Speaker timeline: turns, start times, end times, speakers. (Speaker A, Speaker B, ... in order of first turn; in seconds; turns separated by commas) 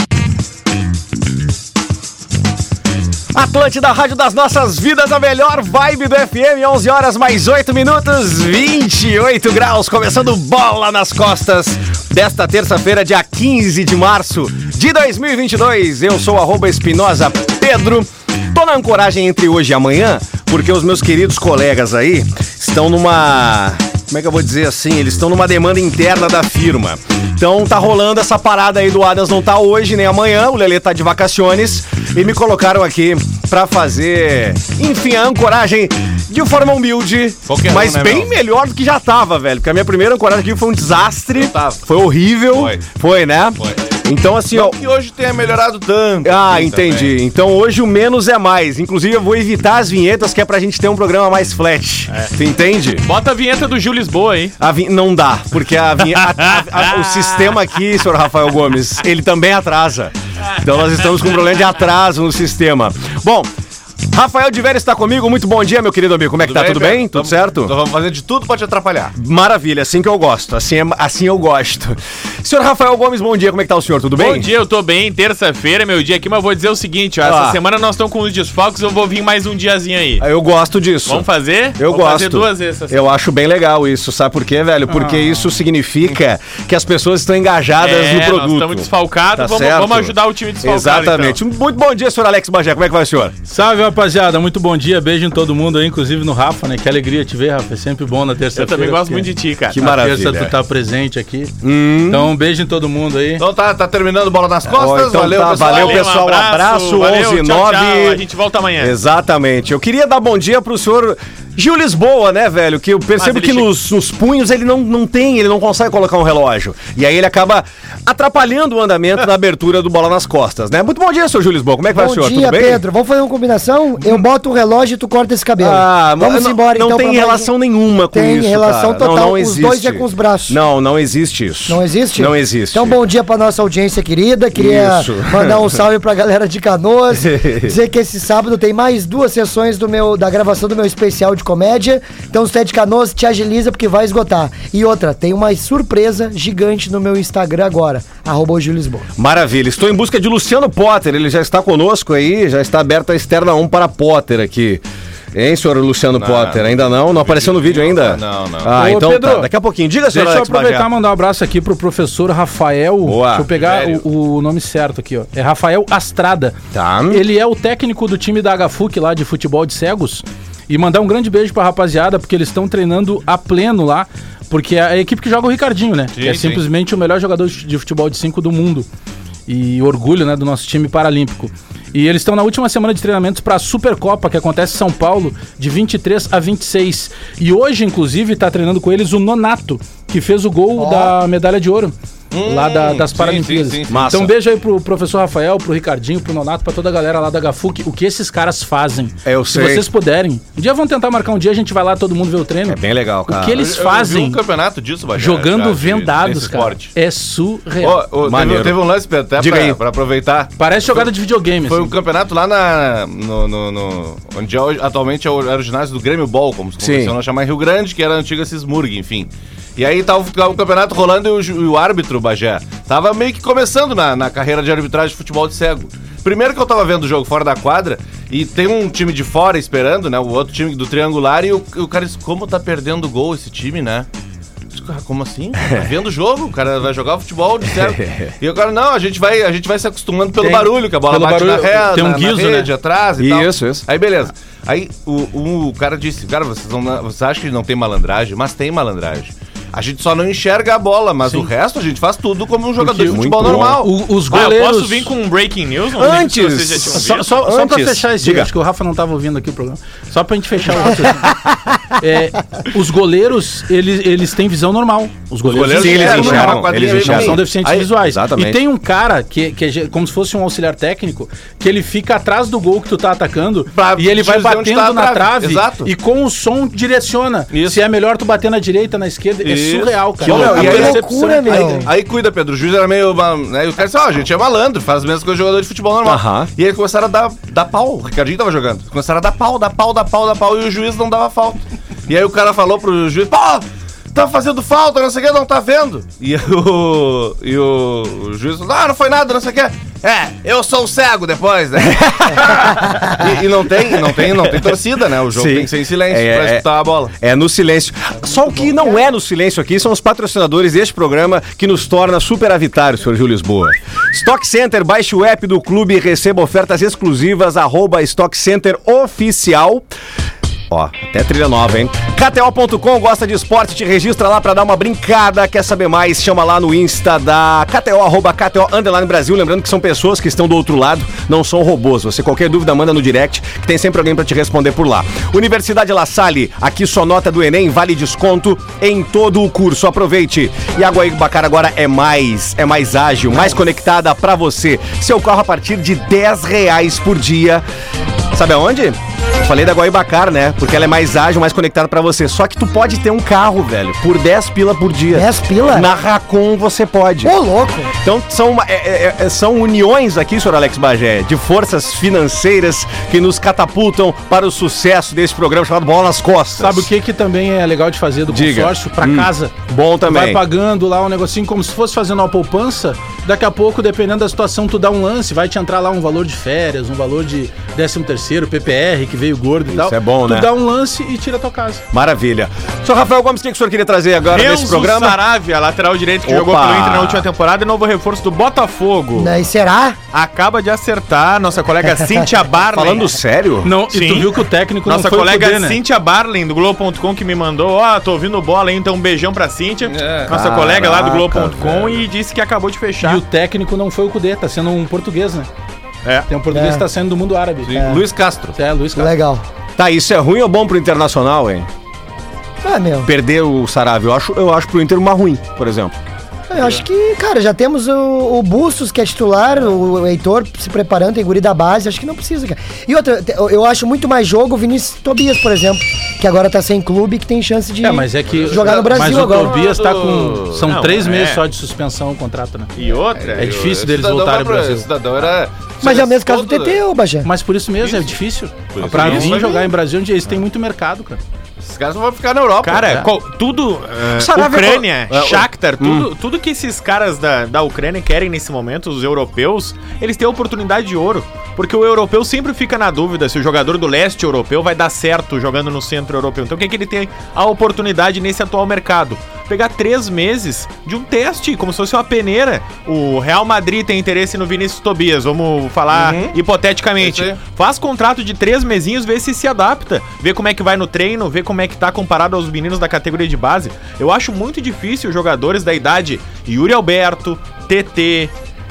Speaker A: 3.3-44.8, Speaker B: 37.5-38.3, Speaker B: 41.3-41.8, Speaker B: 42.5-42.8, Speaker B: 44.5-47.1, Speaker A: 46.2-53.0, Speaker C: 53.0-54.5, Speaker A: 54.6-63.5, Speaker C: 56.0-57.6, Speaker A: 64.1-67.7, Speaker B: 66.4-69.1, Speaker A: 69.2-74.5, Speaker C: 74.2-80.2, Speaker A: 77.2-77.6, Speaker A: 80.2-81.3, Speaker C: 81.0-83.0, Speaker A: 81.8-93.3, Speaker D: 84.9-85.3, Speaker C: 87.8-91.4, Speaker D: 93.5-101.5, Speaker C: 98.5-99.8, Speaker A: 99.7-100.5, Speaker A: 101.6-102.3, Speaker D: 102.1-103.4, Speaker B: 103.4-106.0, Speaker A: 104.7-108.2, Speaker C: 105.5-109.0, Speaker A: 108.8-122.8, Speaker C: 113.2-113.7, Speaker E: 121.9-127.5, Speaker A: 125.6-133.0, Speaker E: 128.1-130.6, Speaker E: 131.7-149.1, Speaker A: 134.5-135.8, Speaker A: 137.1-137.8, Speaker A: 149.2-160.9, Speaker B: 156.2-158.7, Speaker D: 158.7-159.5, Speaker D: 160.1-166.6, Speaker A: 163.0-163.5, Speaker B: 163.5-164.0, Speaker A: 166.7-167.2, Speaker D: 167.1-178.9, Speaker B: 176.1-176.6, Speaker D: 179.5-204.4, Speaker E: 190.8-191.1, Speaker B: 192.3-194.0, Speaker A: 193.9-194.3, Speaker A: 199.2-199.9, Speaker A: 202.7-203.6, Speaker B: 203.6-206.9, Speaker D: 205.1-208.1, Speaker B: 207.8-211.1, Speaker A: 208.2-208.8, Speaker A: 209.4-209.8, Speaker D: 210.6-211.9, Speaker B: 211.6-234.1, Speaker A: 216.8-217.1, Speaker B: 234.7-253.9, Speaker A: 237.7-238.3, Speaker D: 240.4-242.7, Speaker A: 243.2-243.8, Speaker D: 252.8-255.1, Speaker A: 253.0-253.8, Speaker C: 254.3-257.3, Speaker A: 255.9-258.5, Speaker D: 256.9-261.4, Speaker D: 261.9-281.9, Speaker B: 265.5-267.8, Speaker A: 265.7-268.6, Speaker B: 273.7-275.9, Speaker B: 277.5-277.8, Speaker B: 279.4-307.1, Speaker E: 280.2-281.9, Speaker A: 286.0-286.5, Speaker A: 301.8-303.3, Speaker A: 303.9-304.7, Speaker A: 305.3-319.9, Speaker A: 320.7-347.6, Speaker A: 348.3-357.3, Speaker E: 355.1-355.9, Speaker E: 357.2-357.9, Speaker A: 357.9-366.9, Speaker D: 366.6-381.8, Speaker A: 368.3-370.4, Speaker A: 379.7-380.5, Speaker A: 381.9-385.2, Speaker C: 384.3-389.3, Speaker A: 386.2-387.2, Speaker E: 389.1-390.0, Speaker C: 390.1-393.1, Speaker A: 392.7-393.7, Speaker D: 393.6-395.8, Speaker C: 393.9-403.2, Speaker B: 399.9-400.3, Speaker A: 400.3-402.0, Speaker D: 403.0-405.5, Speaker D: 406.3-407.8, Speaker E: 406.5-406.8, Speaker B: 407.6-408.6, Speaker D: 408.6-409.1, Speaker E: 408.9-409.4, Speaker A: 409.8-411.7, Speaker E: 412.6-413.1, Speaker A: 413.0-415.9, Speaker E: 416.5-429.6, Speaker D: 427.8-432.7, Speaker B: 428.3-430.6, Speaker C: 430.6-431.4, Speaker C: 432.7-433.5, Speaker B: 433.1-436.8, Speaker D: 433.4-434.9, Speaker E: 435.8-437.3, Speaker D: 437.2-441.2, Speaker B: 437.8-438.2, Speaker B: 438.7-439.7, Speaker C: 438.9-439.4, Speaker B: 441.6-443.1, Speaker C: 442.6-478.3, Speaker A: 444.1-446.1, Speaker B: 465.9-466.4, Speaker B: 467.0-467.4